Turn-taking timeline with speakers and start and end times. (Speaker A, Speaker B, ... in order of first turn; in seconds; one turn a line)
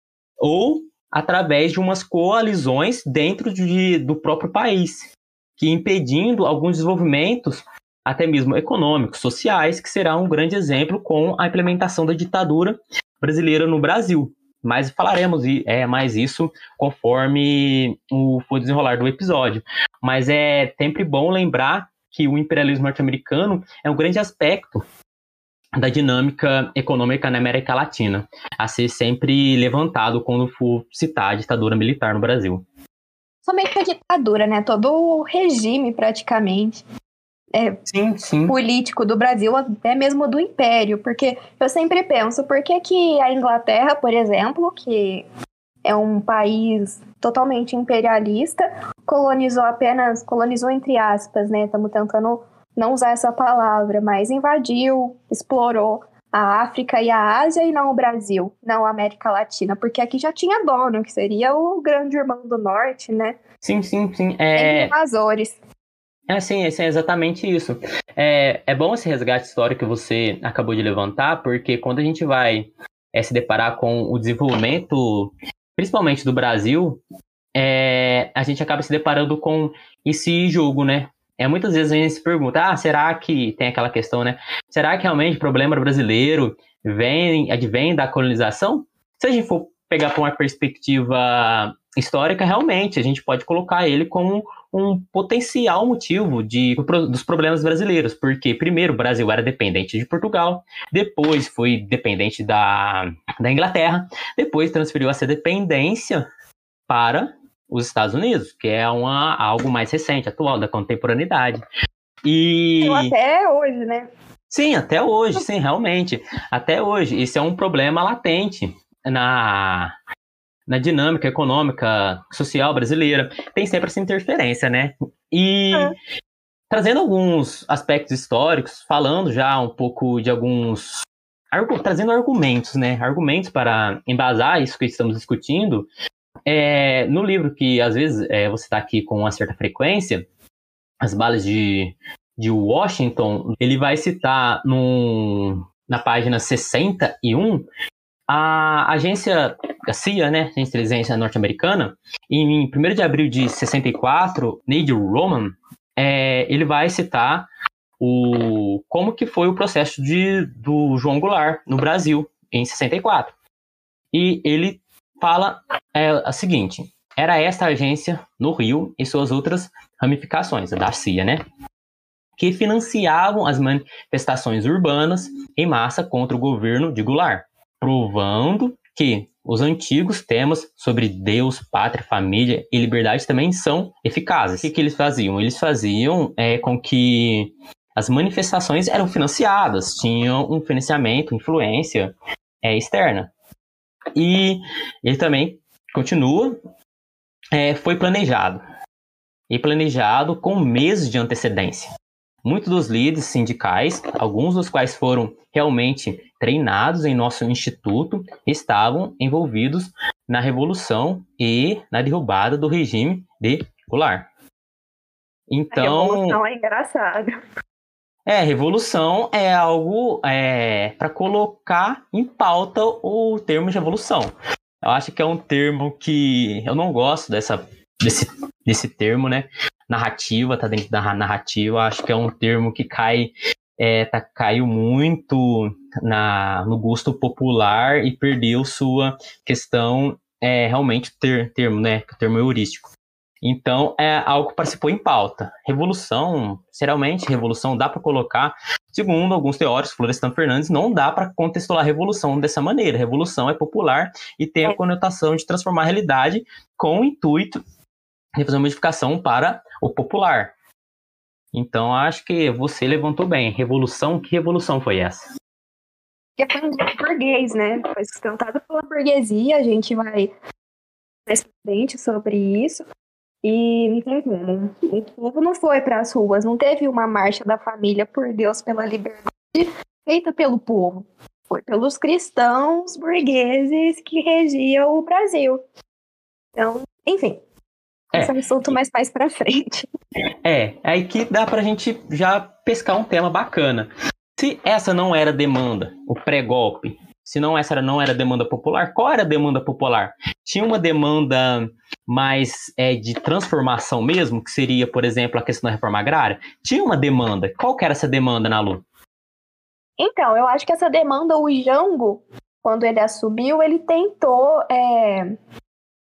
Speaker A: 0.4-24.8
Speaker A: 25.8-32.6
Speaker B: 33.5-36.8
Speaker B: 37.5-37.8
Speaker A: 37.9-38.5
Speaker B: 38.5-45.3
Speaker B: 45.9-63.4
Speaker A: 63.6-64.9
Speaker B: 64.6-65.6
Speaker A: 66.3-77.0
Speaker A: 77.6-106.3
Speaker A: 106.9-111.6
Speaker A: 112.2-113.1
Speaker B: 112.8-114.1
Speaker A: 114.5-119.9
Speaker A: 120.7-126.0
Speaker A: 126.7-135.9
Speaker A: 136.5-140.3
Speaker A: 141.0-147.7
Speaker A: 148.3-157.5
Speaker A: 158.0-163.3
Speaker A: 164.1-171.4
Speaker A: 172.4-193.3
Speaker A: 194.2-196.6
Speaker A: 197.5-198.6
Speaker A: 199.5-201.9
Speaker A: 202.4-214.3
Speaker A: 215.5-216.4
Speaker B: 215.7-217.3
Speaker A: 218.3-242.9
Speaker A: 243.4-257.6
Speaker A: 258.4-260.5
Speaker A: 261.5-265.3
Speaker B: 266.4-270.3
Speaker B: 271.3-272.8
Speaker B: 273.4-285.6
Speaker B: 286.6-287.4
Speaker B: 288.1-289.9
Speaker A: 290.4-308.8
Speaker B: 310.0-315.3